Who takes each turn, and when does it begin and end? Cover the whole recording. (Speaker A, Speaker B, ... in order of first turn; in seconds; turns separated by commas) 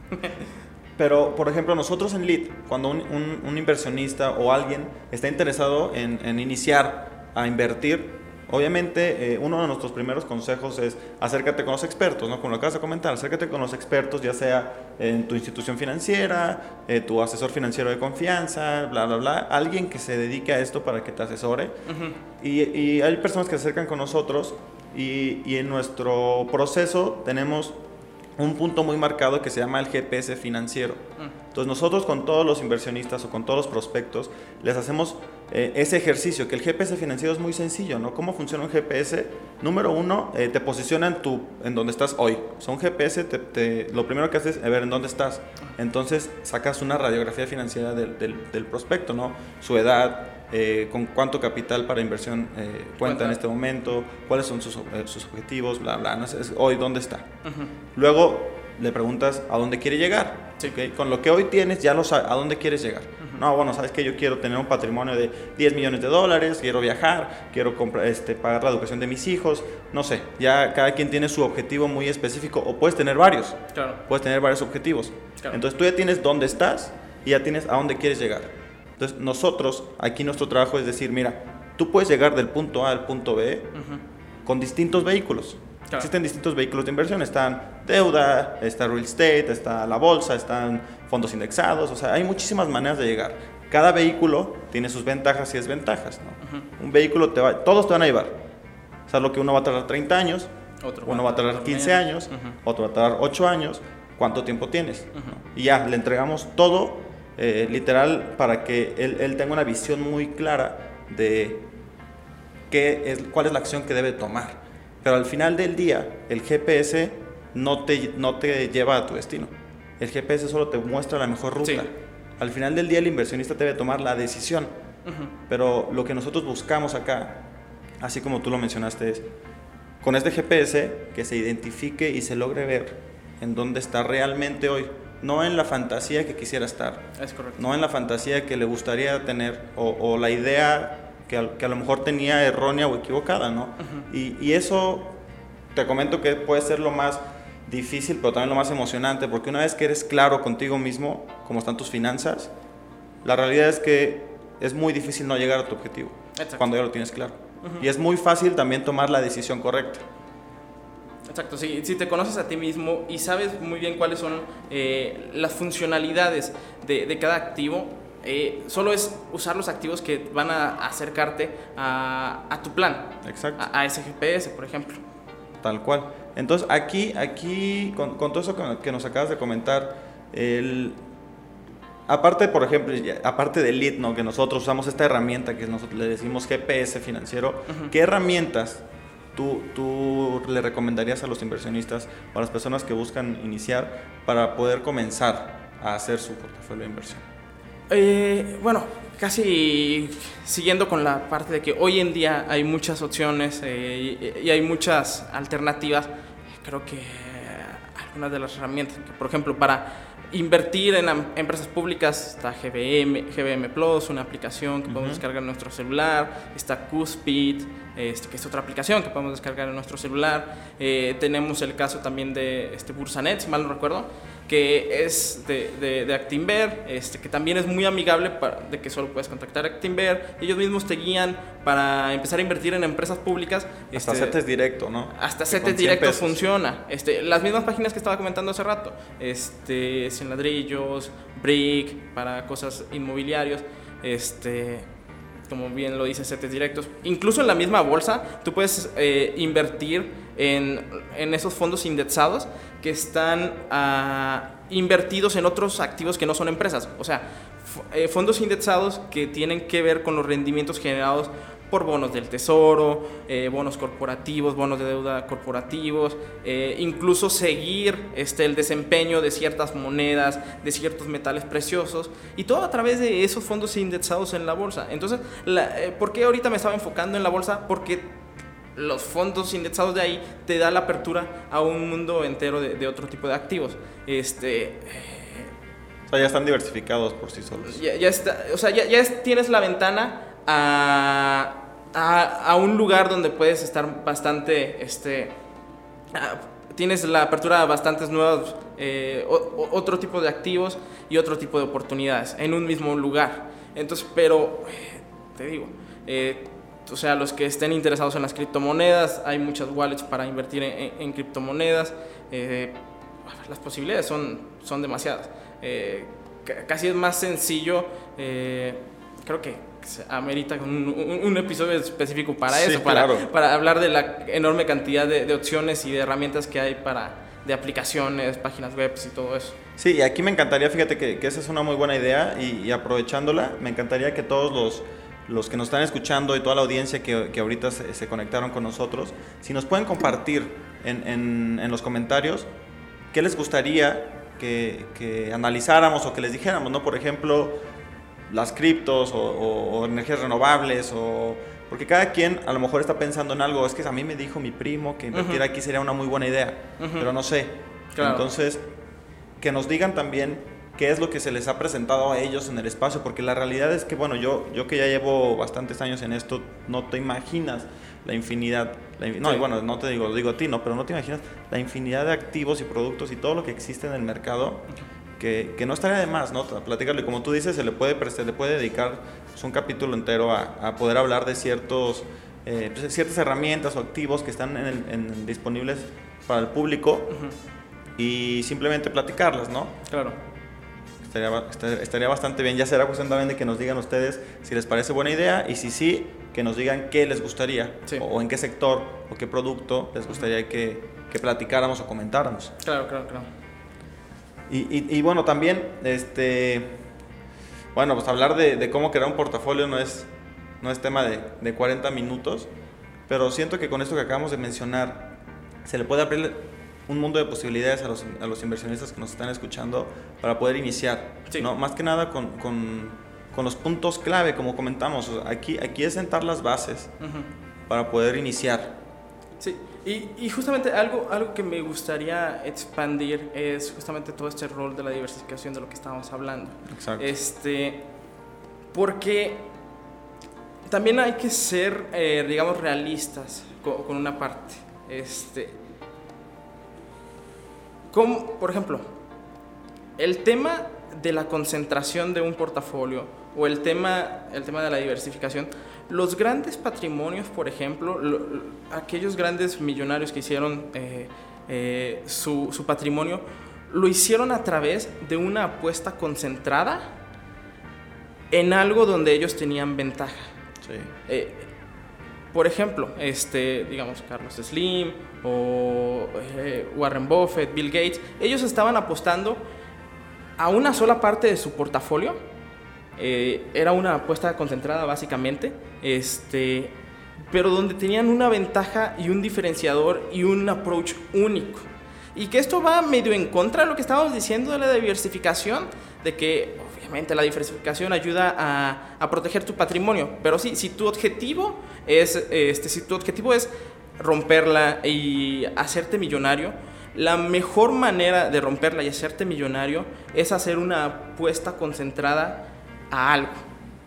Speaker A: 1.0-21.8, Speaker B: 21.9-22.2, Speaker A: 22.4-27.8, Speaker A: 28.4-57.3, Speaker B: 53.0-53.4, Speaker B: 57.4-57.7, Speaker A: 58.0-83.7, Speaker B: 73.7-74.0, Speaker B: 83.8-84.0, Speaker A: 84.5-98.4, Speaker A: 99.1-100.5, Speaker B: 100.8-102.6, Speaker A: 101.0-111.7, Speaker A: 112.7-124.7, Speaker B: 121.6-121.9, Speaker B: 125.0-125.3, Speaker A: 125.5-127.4, Speaker A: 128.0-129.3, Speaker A: 130.0-145.2, Speaker B: 137.2-137.6, Speaker B: 143.8-144.1, Speaker A: 145.7-152.5, Speaker A: 153.2-160.1, Speaker B: 156.4-156.7, Speaker B: 161.3-175.0, Speaker A: 173.2-173.7, Speaker A: 175.6-181.0, Speaker A: 182.1-188.8, Speaker A: 189.3-197.2, Speaker B: 197.9-234.4, Speaker A: 214.9-215.2, Speaker A: 233.9-236.4, Speaker B: 235.1-244.9, Speaker B: 245.5-278.1, Speaker B: 278.8-285.5, Speaker A: 286.1-287.8, Speaker B: 287.6-295.4, Speaker B: 296.1-329.6, Speaker A: 322.5-323.3, Speaker A: 329.8-342.5, Speaker A: 343.1-347.6, Speaker A: 348.3-358.6, Speaker B: 355.1-355.4, Speaker B: 356.8-357.1, Speaker B: 357.9-358.2, Speaker A: 359.4-387.2, Speaker A: 388.0-389.9, Speaker B: 389.9-390.2, Speaker A: 391.0-402.6, Speaker B: 402.6-403.3, Speaker A: 404.5-406.8, Speaker A: 407.7-410.1, Speaker A: 410.6-412.5, Speaker A: 413.1-415.1, Speaker A: 415.6-426.9, Speaker B: 427.0-427.3, Speaker A: 427.7-428.8, Speaker B: 429.4-437.8, Speaker A: 436.7-437.1, Speaker B: 438.7-439.5, Speaker B: 440.7-445.6, Speaker B: 447.9-448.9, Speaker B: 450.0-466.9, Speaker B: 468.3-470.3, Speaker A: 470.6-470.9, Speaker B: 471.1-471.5, Speaker B: 472.3-479.4, Speaker B: 480.4-482.2, Speaker B: 483.0-486.7, Speaker B: 487.3-513.5